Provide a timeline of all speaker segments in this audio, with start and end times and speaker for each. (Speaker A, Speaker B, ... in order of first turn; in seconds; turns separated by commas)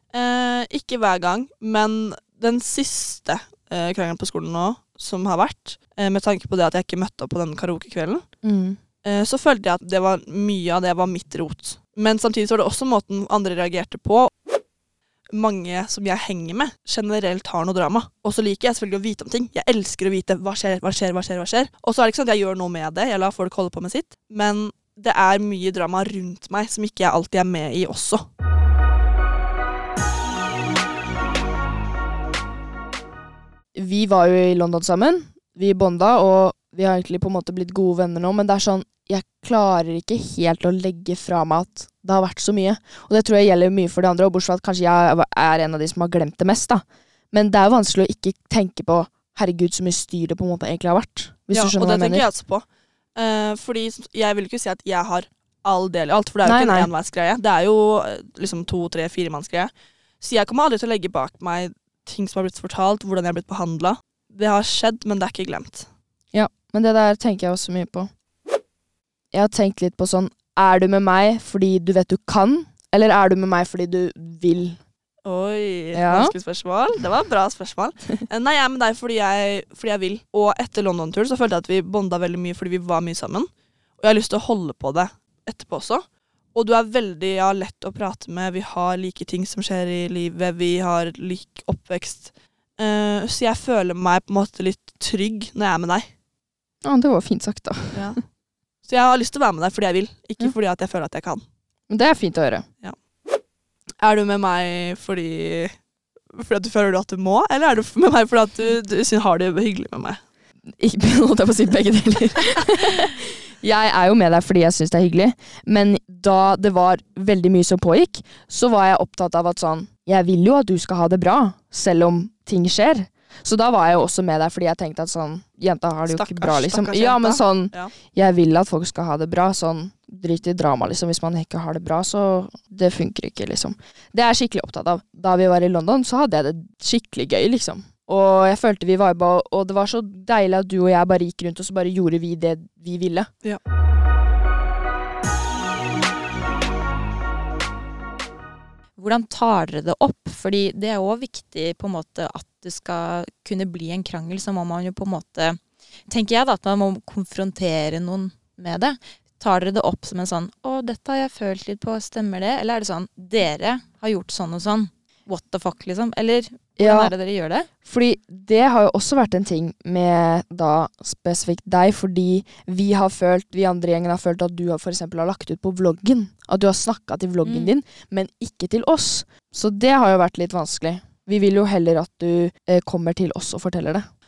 Speaker A: 0.1-8.2, Speaker B: 8.4-8.8, Speaker A: 9.0-14.3, Speaker A: 15.3-28.2, Speaker B: 33.7-52.2, Speaker A: 51.5-52.6, Speaker A: 53.1-65.9, Speaker B: 56.4-56.9, Speaker B: 66.3-68.1, Speaker B: 69.3-74.8, Speaker A: 75.2-96.1, Speaker B: 75.9-76.3, Speaker B: 96.8-98.2, Speaker A: 97.9-98.2, Speaker A: 98.8-101.4, Speaker B: 101.9-102.7, Speaker A: 104.0-105.7, Speaker A: 106.3-110.2, Speaker B: 110.7-143.3, Speaker A: 126.1-127.9, Speaker C: 149.0-167.7, Speaker B: 166.8-167.1, Speaker B: 167.8-184.1, Speaker C: 177.4-177.7